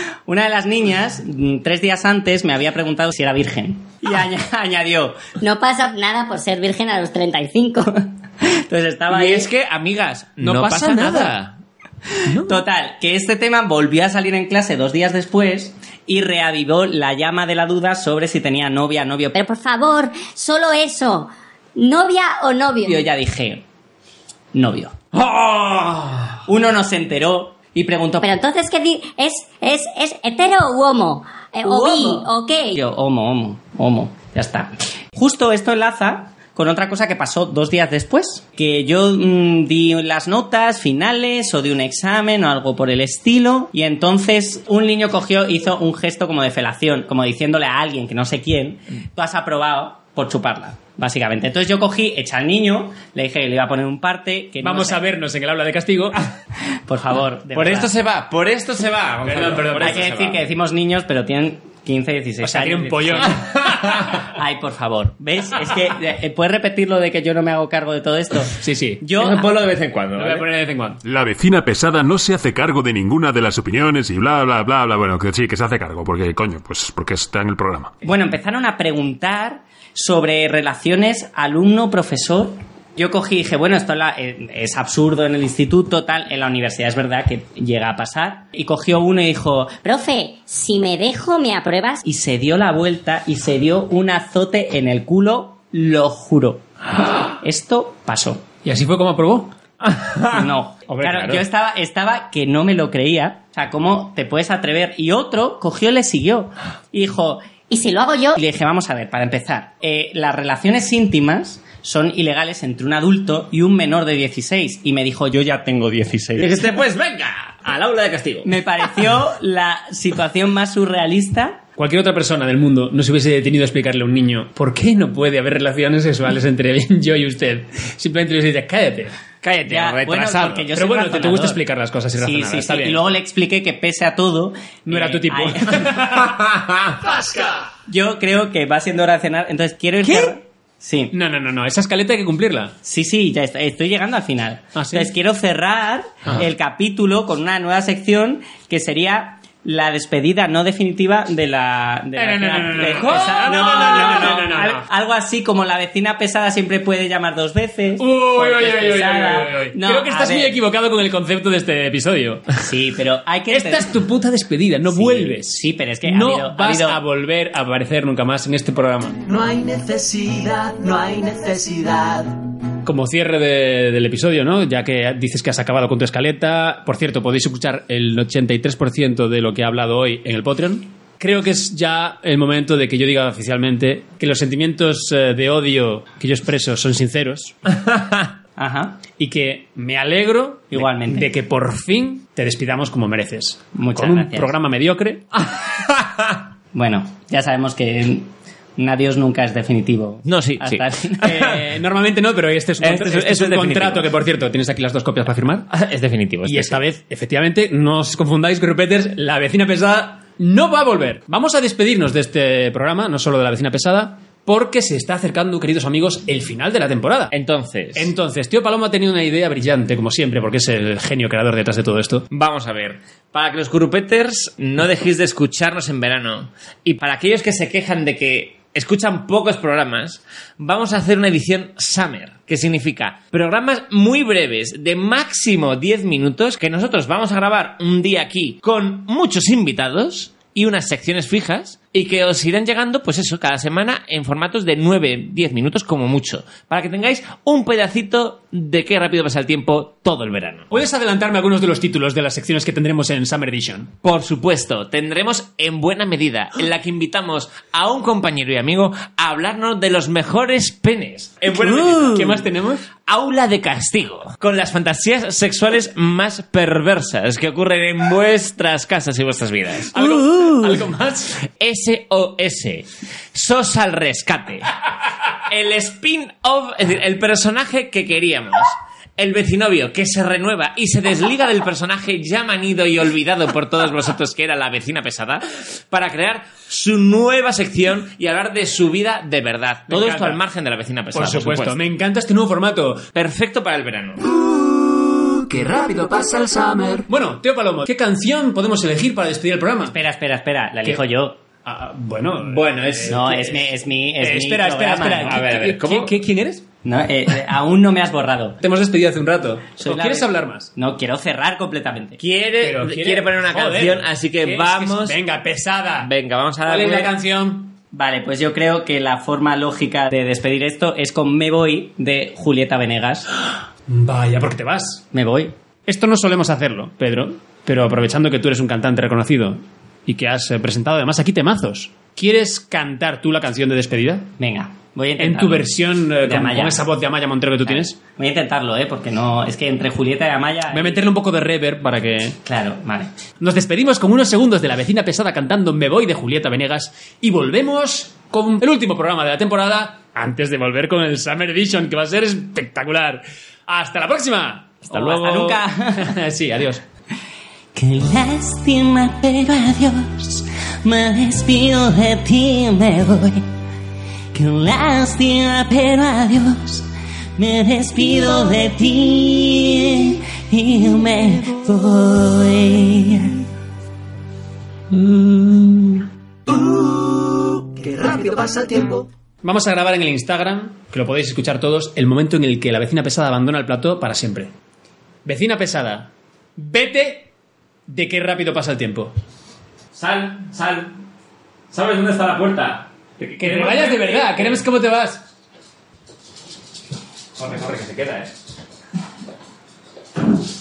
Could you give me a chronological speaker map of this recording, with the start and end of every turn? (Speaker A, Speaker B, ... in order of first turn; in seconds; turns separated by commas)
Speaker A: 0.3-5.2, Speaker B: 5.4-8.0, Speaker A: 8.4-9.5, Speaker C: 9.1-11.6, Speaker D: 10.4-11.3, Speaker D: 12.3-12.7, Speaker A: 12.4-19.4, Speaker B: 19.4-23.0, Speaker A: 22.8-23.6, Speaker A: 24.5-25.0, Speaker C: 25.1-26.4, Speaker A: 26.4-28.3, Speaker B: 28.2-32.8, Speaker A: 31.6-55.0, Speaker D: 54.6-56.3, Speaker A: 56.9-57.9, Speaker C: 57.5-60.4, Speaker D: 59.2-60.0, Speaker A: 59.8-63.4, Speaker D: 62.4-64.2, Speaker A: 64.2-69.5, Speaker D: 68.6-69.0, Speaker C: 69.2-70.5, Speaker D: 70.2-71.0, Speaker E: 71.0-77.9, Speaker A: 78.0-89.8, Speaker B: 89.8-92.0, Speaker A: 92.0-96.6, Speaker A: 97.4-98.5, Speaker D: 98.6-99.5, Speaker C: 99.8-100.5, Speaker A: 100.3-107.5, Speaker D: 100.9-101.4, Speaker C: 101.0-101.4, Speaker B: 107.7-108.4, Speaker A: 108.3-116.7, Speaker C: 116.4-118.5, Speaker A: 118.5-121.6, Speaker D: 121.8-129.1, Speaker C: 129.4-130.7, Speaker A: 129.7-131.6, Speaker D: 130.7-133.0, Speaker A: 132.2-136.1, Speaker D: 134.9-136.5, Speaker C: 136.4-136.9, Speaker D: 137.0-137.6, Speaker A: 137.9-141.1, Speaker D: 140.1-140.3, Speaker D: 141.1-142.8, Speaker A: 142.8-160.6, Speaker D: 144.8-145.1, Speaker D: 152.2-154.8, Speaker C: 152.9-153.7, Speaker D: 158.0-162.5, Speaker A: 162.6-163.9, Speaker D: 163.5-169.2, Speaker A: 164.9-167.0, Speaker F: 169.3-172.5, Speaker D: 172.8-187.6, Speaker C: 187.8-188.3, Speaker A: 188.6-189.0, Speaker D: 189.1-195.3, Speaker A: 190.7-191.3, Speaker A: 193.8-194.5, Speaker C: 195.5-196.4, Speaker A: 196.7-201.5, Speaker C: 200.2-201.6, Speaker D: 201.2-205.7, Speaker C: 202.8-204.1, Speaker C: 205.7-206.8, Speaker D: 206.4-217.3, Speaker C: 217.3-218.1, Speaker D: 217.9-222.3, Speaker C: 222.3-250.7, Speaker D: 250.7-253.9, Speaker C: 254.0-262.5, Speaker A: 261.5-262.4, Speaker D: 262.1-262.9, Speaker C: 263.1-270.1, Speaker D: 269.9-271.4, Speaker A: 270.0-270.8, Speaker C: 271.4-274.7, Speaker C: 275.5-291.8, Speaker D: 289.9-290.4, Speaker D: 291.1-293.1, Speaker C: 293.1-294.3, Speaker F: 294.3-297.1, Speaker D: 297.1-299.9, Speaker A: 299.9-301.4, Speaker D: 301.6-303.6, Speaker C: 302.4-303.6, Speaker A: 303.1-305.4, Speaker D: 304.2-306.6, Speaker C: 305.2-306.1, Speaker A: 306.8-308.6, Speaker D: 308.6-310.7, Speaker A: 309.8-312.2, Speaker C: 312.2-315.2, Speaker D: 312.6-316.1, Speaker C: 316.0-317.1, Speaker D: 316.7-317.8, Speaker A: 317.9-323.3, Speaker D: 323.9-325.1, Speaker A: 325.1-325.5, Speaker D: 325.9-334.3, Speaker A: 334.4-335.7, Speaker D: 335.2-338.0, Speaker A: 336.2-336.8, Speaker A: 337.6-341.1, Speaker D: 340.7-342.4, Speaker A: 342.4-343.1, Speaker D: 343.4-356.8, Speaker A: 354.9-356.1, Speaker A: 357.8-363.5, Speaker A: 364.3-366.9, Speaker A: 367.4-373.4, Speaker D: 374.9-376.1, Speaker F: 376.5-379.1, Speaker D: 379.4-384.5, Speaker D: 385.2-387.3, Speaker D: 387.9-389.1, Speaker C: 389.9-390.9, Speaker C: 391.7-394.6, Speaker D: 393.4-395.2, Speaker C: 397.4-398.4